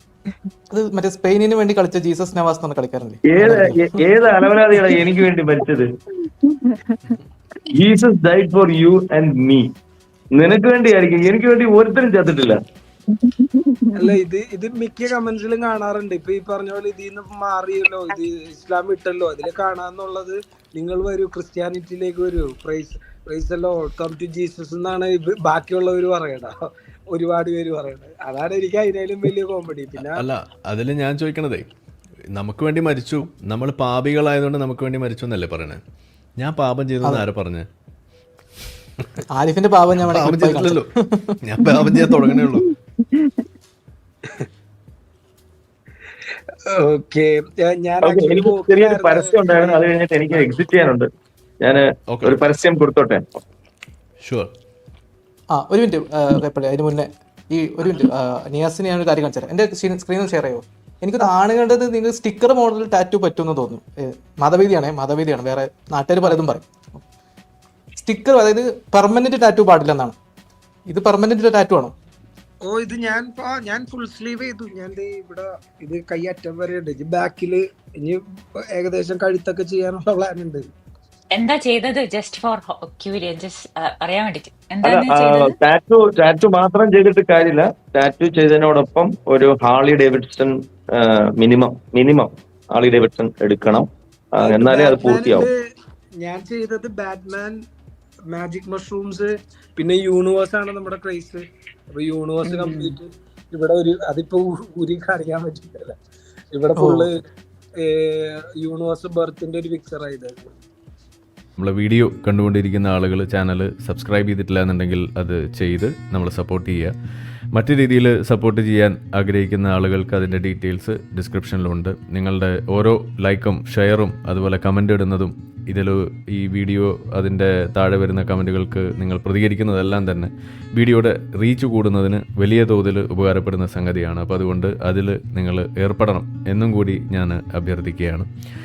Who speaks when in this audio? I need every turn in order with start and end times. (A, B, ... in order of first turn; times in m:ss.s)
0:00.7-0:04.0 A
0:03.3-0:05.9 B
0:07.7-0:09.7 B
0:10.3-0:12.6 B
0:13.4-0:13.8 C
0:13.9-0:26.5 D
0:27.1-0:30.2 D
0:30.0-0:31.7 E
0:32.3-0:35.8 E
0:36.4-0:37.7 E
0:39.3-0:42.5 A
0:40.0-0:40.9 E
0:41.4-0:42.7 E
0:46.7-0:50.4 D
0:48.0-0:51.1 B
0:51.6-0:53.2 B
0:52.1-0:52.4 E
0:54.2-0:54.5 E
0:55.5-1:07.0 A
1:08.0-1:10.2 A
1:10.9-1:11.9 A
1:12.6-1:18.2 D
1:18.7-1:20.6 D
1:21.3-1:25.5 C
1:24.8-1:35.5 B
1:34.4-1:35.5 D
1:36.2-1:37.6 D
1:38.3-1:41.4 D
1:41.9-1:46.0 D
1:46.5-1:47.2 D
1:46.8-1:47.1 A
1:47.8-1:50.5 D
1:51.6-1:56.9 E
1:57.5-2:18.3 E